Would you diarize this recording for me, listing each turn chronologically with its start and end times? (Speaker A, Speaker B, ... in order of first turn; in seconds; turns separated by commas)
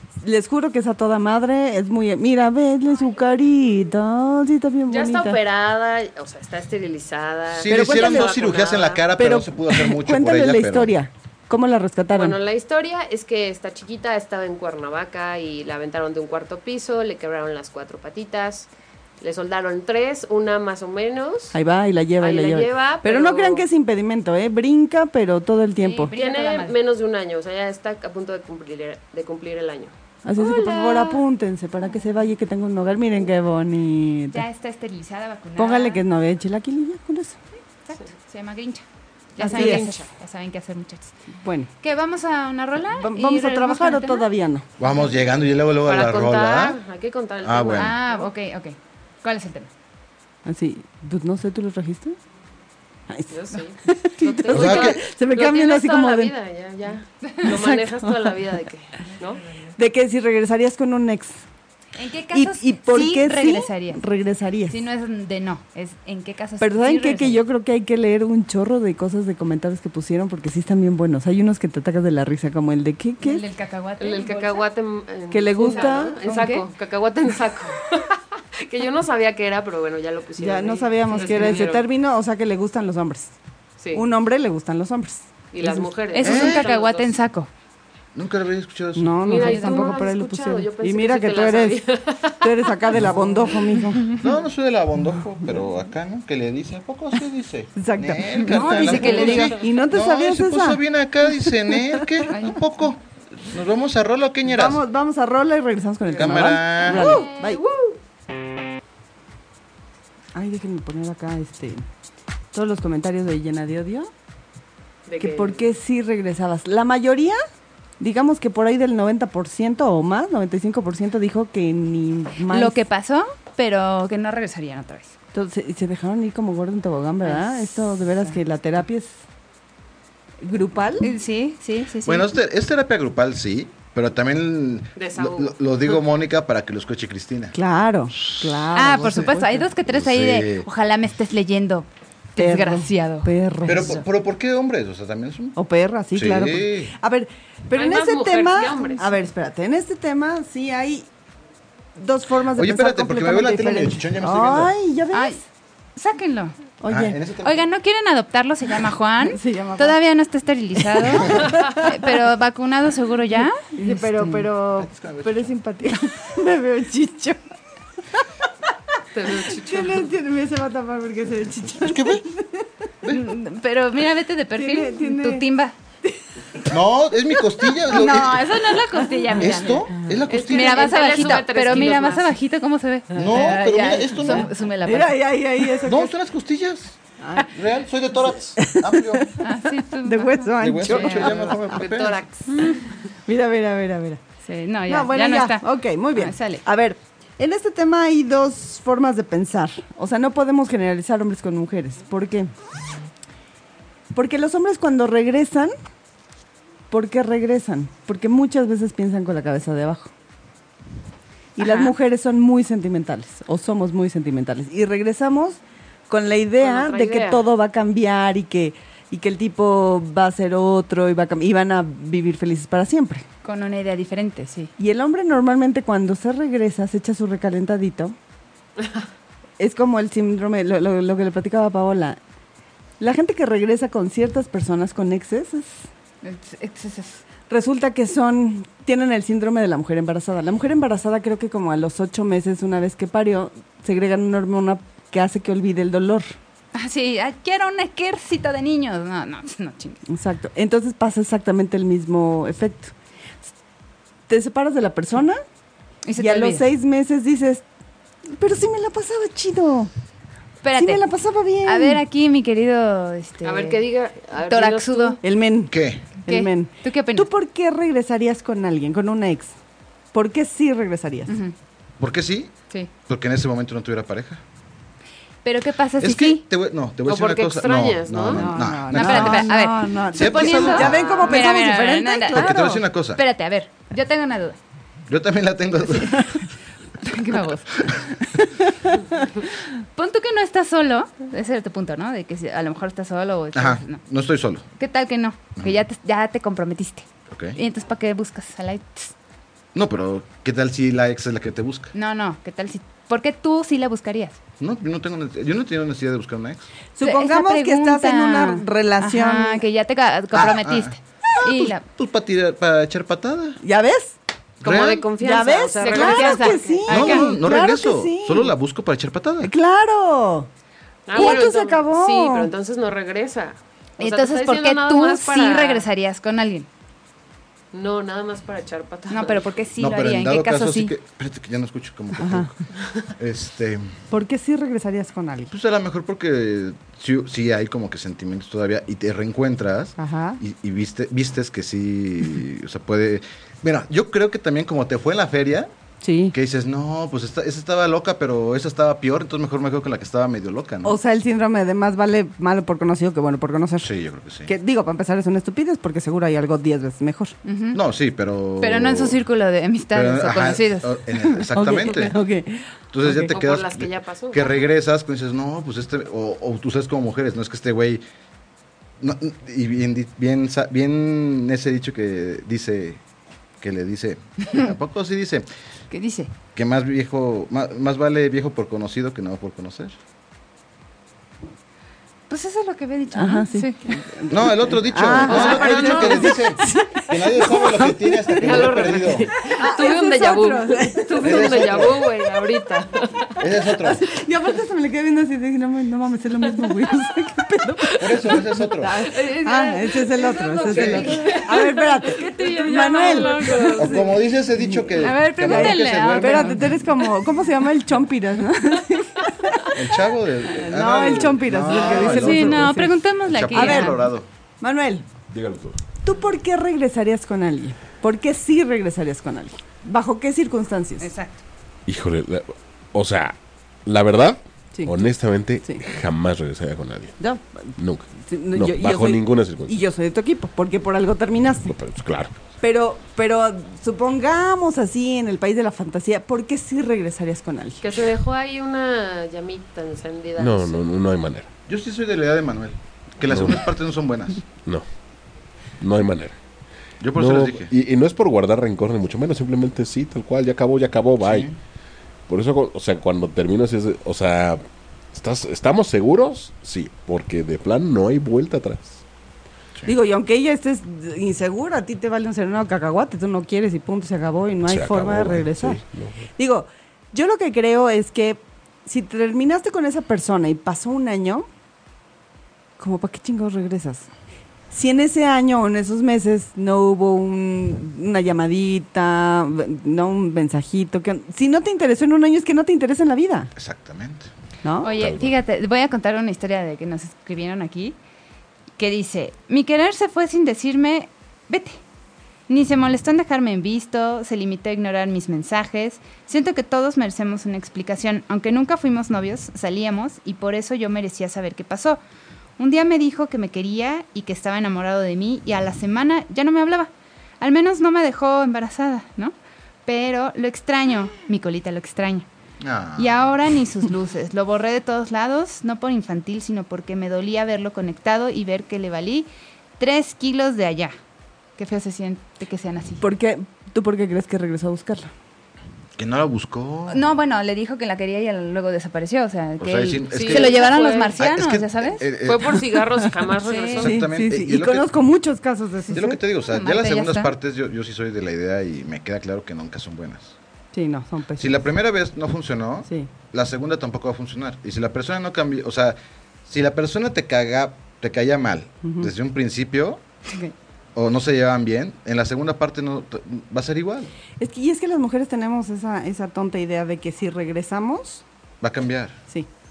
Speaker A: 0.2-5.4, Speaker B: 4.9-9.0, Speaker C: 7.5-10.9, Speaker A: 7.7-8.4, Speaker A: 9.1-12.3, Speaker B: 12.1-18.7, Speaker B: 19.2-21.6, Speaker A: 21.5-26.1, Speaker B: 22.2-23.6, Speaker D: 25.8-26.8, Speaker B: 26.1-31.2, Speaker A: 30.2-34.4, Speaker D: 34.3-36.0, Speaker A: 35.6-37.4, Speaker D: 37.8-38.8, Speaker D: 39.3-41.2, Speaker A: 39.4-39.9, Speaker B: 39.4-40.0, Speaker A: 41.3-41.7, Speaker D: 41.8-44.3, Speaker A: 42.9-44.6, Speaker C: 44.8-46.8, Speaker B: 45.9-48.3, Speaker C: 47.4-48.0, Speaker D: 47.7-49.7, Speaker A: 50.4-52.2, Speaker A: 53.1-53.3, Speaker B: 53.3-59.5, Speaker A: 53.9-56.3, Speaker C: 54.5-55.0, Speaker A: 57.4-58.4, Speaker A: 59.8-61.4, Speaker D: 62.0-64.0, Speaker A: 62.3-64.8, Speaker D: 64.7-67.4, Speaker A: 66.6-73.4, Speaker D: 73.2-74.7, Speaker B: 74.0-81.9, Speaker A: 75.3-76.2, Speaker D: 75.6-76.7, Speaker A: 80.4-83.3, Speaker D: 81.1-81.6, Speaker B: 83.8-84.0, Speaker A: 83.9-85.9, Speaker B: 85.5-87.1, Speaker D: 86.1-87.5, Speaker C: 86.2-86.7, Speaker C: 88.1-89.2, Speaker A: 89.0-91.8, Speaker B: 89.2-93.4, Speaker D: 89.3-90.0, Speaker A: 92.4-94.1, Speaker C: 94.0-104.8, Speaker A: 97.8-102.3, Speaker D: 98.4-99.6, Speaker D: 102.3-102.6, Speaker A: 104.4-107.6, Speaker C: 106.1-107.1, Speaker B: 106.9-108.0, Speaker D: 107.0-107.4, Speaker A: 110.3-111.8, Speaker A: 112.5-114.1, Speaker B: 115.1-115.7, Speaker A: 115.2-117.4, Speaker A: 118.0-122.8, Speaker D: 122.5-125.1, Speaker A: 125.3-129.2, Speaker D: 127.2-128.4, Speaker A: 130.4-131.1, Speaker D: 131.0-132.3, Speaker C: 132.0-137.6, Speaker B: 134.9-135.6, Speaker A: 137.5-139.6, Speaker C: 138.1-139.3, Speaker D: 138.7-143.3, Speaker C: 139.8-140.7, Speaker A: 142.4-144.0, Speaker C: 143.6-145.6, Speaker A: 145.6-151.1, Speaker C: 146.1-146.9, Speaker B: 147.7-149.1, Speaker A: 151.9-155.4, Speaker C: 152.5-154.8, Speaker D: 155.1-155.4, Speaker D: 155.9-156.5, Speaker A: 156.8-157.2, Speaker C: 156.9-157.7, Speaker D: 157.4-164.5, Speaker A: 159.2-159.9, Speaker A: 161.2-162.0, Speaker A: 163.7-167.4, Speaker C: 164.8-165.5, Speaker B: 169.1-170.1, Speaker A: 169.2-172.7, Speaker C: 171.7-172.2, Speaker C: 173.0-173.3, Speaker D: 173.1-175.7, Speaker A: 174.6-175.4, Speaker A: 176.0-176.7, Speaker C: 176.7-178.7, Speaker A: 177.4-180.2, Speaker D: 177.9-179.9, Speaker C: 179.4-181.1, Speaker B: 180.3-182.3, Speaker D: 180.4-185.2, Speaker C: 183.1-184.5, Speaker A: 184.2-186.1, Speaker C: 185.8-189.3, Speaker A: 187.2-187.5, Speaker A: 188.6-191.6, Speaker D: 189.4-191.4, Speaker C: 190.6-192.2, Speaker B: 191.5-192.7, Speaker A: 192.5-194.2, Speaker D: 194.4-196.6, Speaker A: 194.9-202.5, Speaker A: 204.1-205.7, Speaker A: 206.9-210.1, Speaker A: 211.6-223.2, Speaker D: 211.6-211.9, Speaker B: 216.6-217.4, Speaker D: 223.4-224.7, Speaker A: 224.8-228.2, Speaker A: 229.6-232.2, Speaker A: 233.0-235.8, Speaker D: 236.2-237.2, Speaker A: 237.5-246.3, Speaker D: 246.7-250.0, Speaker A: 250.1-252.9, Speaker A: 254.3-255.4, Speaker D: 256.0-256.6, Speaker A: 256.2-257.6, Speaker A: 258.3-259.9, Speaker D: 260.6-261.1, Speaker A: 260.8-262.0, Speaker D: 261.6-263.8, Speaker B: 263.4-265.2, Speaker D: 264.4-265.2, Speaker A: 265.2-269.5, Speaker C: 265.7-266.1, Speaker D: 266.2-267.3, Speaker A: 270.1-271.3, Speaker D: 271.3-271.5, Speaker C: 272.0-272.5, Speaker C: 273.1-274.4, Speaker D: 275.4-276.4, Speaker C: 276.0-281.1, Speaker B: 277.0-278.4, Speaker A: 278.3-282.6, Speaker D: 278.9-284.6, Speaker B: 280.8-281.5, Speaker C: 282.3-283.2, Speaker C: 285.1-286.4, Speaker D: 287.0-288.4, Speaker D: 289.9-294.0, Speaker C: 293.5-294.6, Speaker D: 294.8-299.1, Speaker C: 297.3-297.6, Speaker C: 299.7-301.9, Speaker D: 301.9-304.4, Speaker C: 304.6-306.6, Speaker A: 306.9-309.6, Speaker D: 307.0-311.8, Speaker C: 310.3-313.6, Speaker A: 313.6-314.1, Speaker B: 314.6-317.3, Speaker C: 314.6-315.1, Speaker A: 315.2-318.5, Speaker D: 315.8-317.4, Speaker C: 316.9-319.5, Speaker A: 319.4-320.5, Speaker B: 321.1-325.9, Speaker A: 321.1-322.5, Speaker D: 321.1-321.4, Speaker D: 324.0-326.7, Speaker B: 327.7-329.5, Speaker D: 329.1-330.9, Speaker C: 329.8-333.9, Speaker A: 332.2-332.5, Speaker A: 334.1-335.5, Speaker C: 335.5-345.7, Speaker A: 340.0-340.4, Speaker A: 346.0-346.4, Speaker C: 346.3-350.9, Speaker A: 350.8-353.9, Speaker C: 353.8-354.5, Speaker A: 354.4-357.3, Speaker D: 357.4-357.8, Speaker C: 357.7-359.2, Speaker D: 358.6-360.9, Speaker C: 359.9-362.2, Speaker A: 361.3-363.3, Speaker C: 362.9-368.0, Speaker B: 363.3-364.6, Speaker C: 369.0-373.0, Speaker C: 373.6-375.4, Speaker D: 375.9-376.3, Speaker C: 376.5-380.0, Speaker D: 382.3-384.0, Speaker A: 383.1-392.5, Speaker C: 384.3-389.3, Speaker B: 385.2-386.4, Speaker B: 388.4-393.4, Speaker C: 391.2-392.0, Speaker C: 393.4-394.0, Speaker A: 393.8-409.8, Speaker C: 398.0-399.1, Speaker D: 399.1-403.8, Speaker B: 399.1-404.1, Speaker C: 400.7-401.1, Speaker C: 403.8-406.6, Speaker D: 404.9-406.9, Speaker C: 409.7-414.3, Speaker A: 410.5-412.9, Speaker D: 411.9-414.0, Speaker A: 413.5-414.1, Speaker A: 414.6-415.1, Speaker E: 415.3-415.8, Speaker A: 416.0-421.1, Speaker D: 421.0-421.4, Speaker E: 421.9-427.1, Speaker A: 424.7-425.0, Speaker A: 427.2-431.7, Speaker E: 427.8-429.8, Speaker E: 431.7-432.4, Speaker A: 432.6-437.8, Speaker B: 437.8-440.8, Speaker E: 440.4-441.5, Speaker C: 441.7-444.4, Speaker E: 443.3-443.6, Speaker E: 445.8-446.4, Speaker C: 447.0-447.7, Speaker E: 447.1-451.5, Speaker C: 451.2-451.5, Speaker E: 452.3-454.6, Speaker E: 455.1-459.0, Speaker A: 459.9-465.8, Speaker E: 464.6-466.3, Speaker A: 466.4-471.5, Speaker A: 472.8-474.1, Speaker A: 474.7-483.5, Speaker C: 483.6-484.3, Speaker A: 484.6-484.9, Speaker D: 484.8-487.9, Speaker E: 485.0-485.3, Speaker D: 488.8-491.8, Speaker D: 492.5-502.0, Speaker D: 502.6-509.3, Speaker D: 509.9-512.3, Speaker C: 512.6-513.3, Speaker D: 513.0-519.3, Speaker D: 519.8-520.9, Speaker D: 521.6-523.0, Speaker A: 523.0-525.1, Speaker C: 526.0-527.0, Speaker D: 526.9-532.1, Speaker C: 529.6-532.7, Speaker B: 530.1-531.2, Speaker B: 532.2-534.0, Speaker D: 533.4-533.8, Speaker C: 533.7-534.9, Speaker A: 533.8-536.2, Speaker C: 535.9-540.4, Speaker D: 536.5-537.3, Speaker A: 540.7-541.6, Speaker C: 541.4-550.0, Speaker A: 548.8-549.1, Speaker C: 550.9-554.1, Speaker A: 554.4-558.2, Speaker C: 558.6-559.2